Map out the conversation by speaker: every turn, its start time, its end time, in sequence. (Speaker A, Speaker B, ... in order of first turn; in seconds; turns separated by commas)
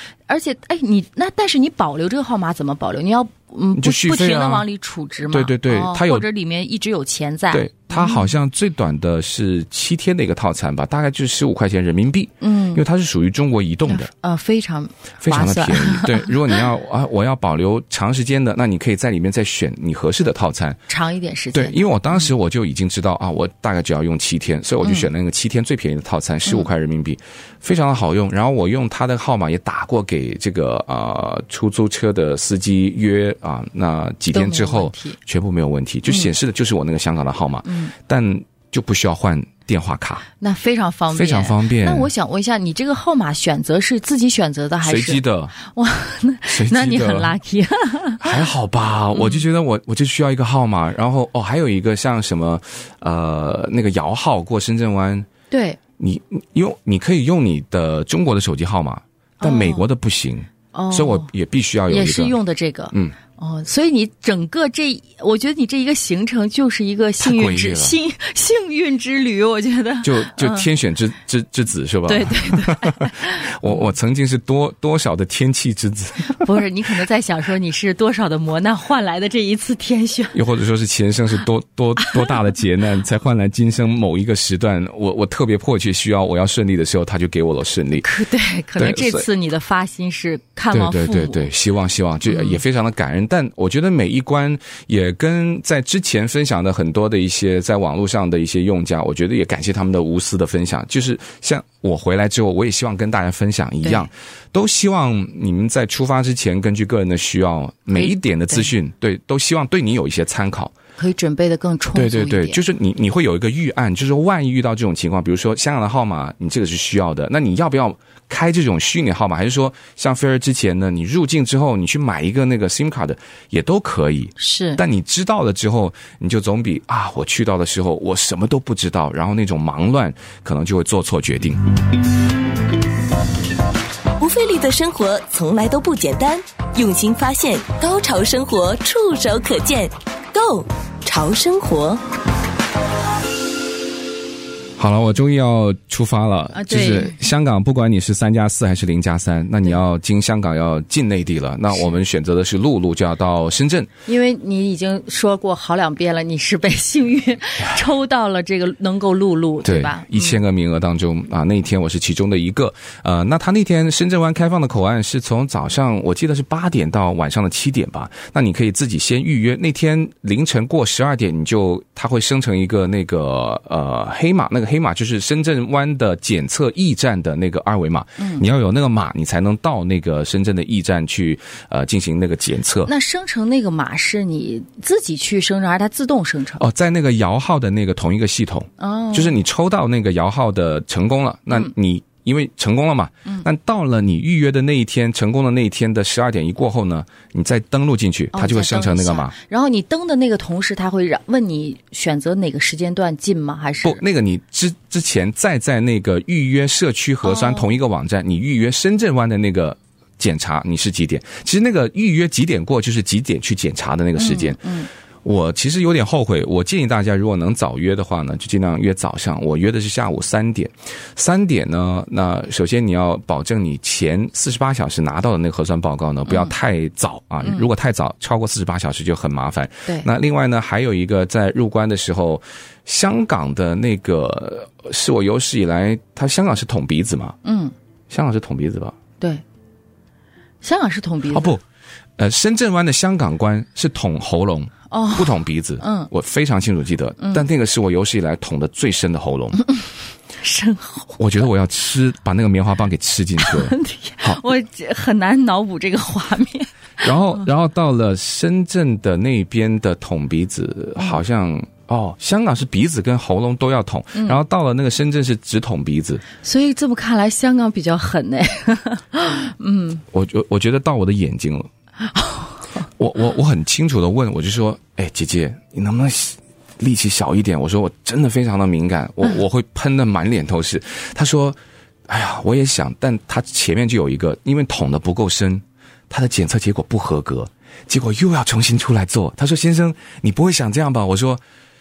Speaker A: 0.3-8.3, Speaker B: 3.8-4.6, Speaker B: 5.3-6.2, Speaker B: 7.5-14.1, Speaker A: 12.4-12.8, Speaker A: 13.9-16.6, Speaker B: 15.2-20.8, Speaker A: 20.9-22.3, Speaker B: 21.5-40.2, Speaker A: 24.8-25.1, Speaker A: 34.3-35.2, Speaker A: 37.6-37.9, Speaker A: 40.4-48.4, Speaker B: 41.1-42.1, Speaker B: 44.8-45.5, Speaker B: 46.5-47.4, Speaker B: 48.2-55.3, Speaker A: 49.1-49.5, Speaker A: 55.5-55.8, Speaker B: 56.0-62.4, Speaker A: 59.4-59.9, Speaker A: 60.7-61.3, Speaker A: 61.9-70.7, Speaker B: 67.2-68.0, Speaker B: 70.0-76.6, Speaker A: 72.1-73.9, Speaker A: 76.3-80.4, Speaker B: 80.3-88.1, Speaker A: 82.0-82.4, Speaker A: 88.0-91.5, Speaker B: 88.8-89.3, Speaker B: 90.7-110.7, Speaker A: 92.3-92.6, Speaker A: 107.9-108.7, Speaker A: 111.0-112.6, Speaker B: 112.0-131.6, Speaker A: 124.4-124.8, Speaker C: 134.2-142.0, Speaker B: 144.8-153.9, Speaker A: 146.5-147.2, Speaker A: 154.1-160.4, Speaker B: 159.6-182.9, Speaker A: 182.9-186.6, Speaker B: 186.6-199.3, Speaker A: 188.8-189.4, Speaker A: 198.3-204.0, Speaker B: 203.8-214.7, Speaker A: 207.2-207.7, Speaker A: 214.2-214.9, Speaker B: 215.2-237.4, Speaker A: 226.3-226.5, Speaker A: 237.4-237.7, Speaker B: 238.1-239.0, Speaker A: 240.6-241.6, Speaker B: 241.3-241.6, Speaker B: 242.2-249.6, Speaker A: 244.9-246.1, Speaker A: 250.4-251.2, Speaker B: 251.2-254.4, Speaker A: 253.4-257.4, Speaker B: 257.0-266.2, Speaker A: 264.1-264.4, Speaker A: 266.4-270.0, Speaker B: 270.1-271.7, Speaker A: 272.1-272.7, Speaker B: 273.0-291.4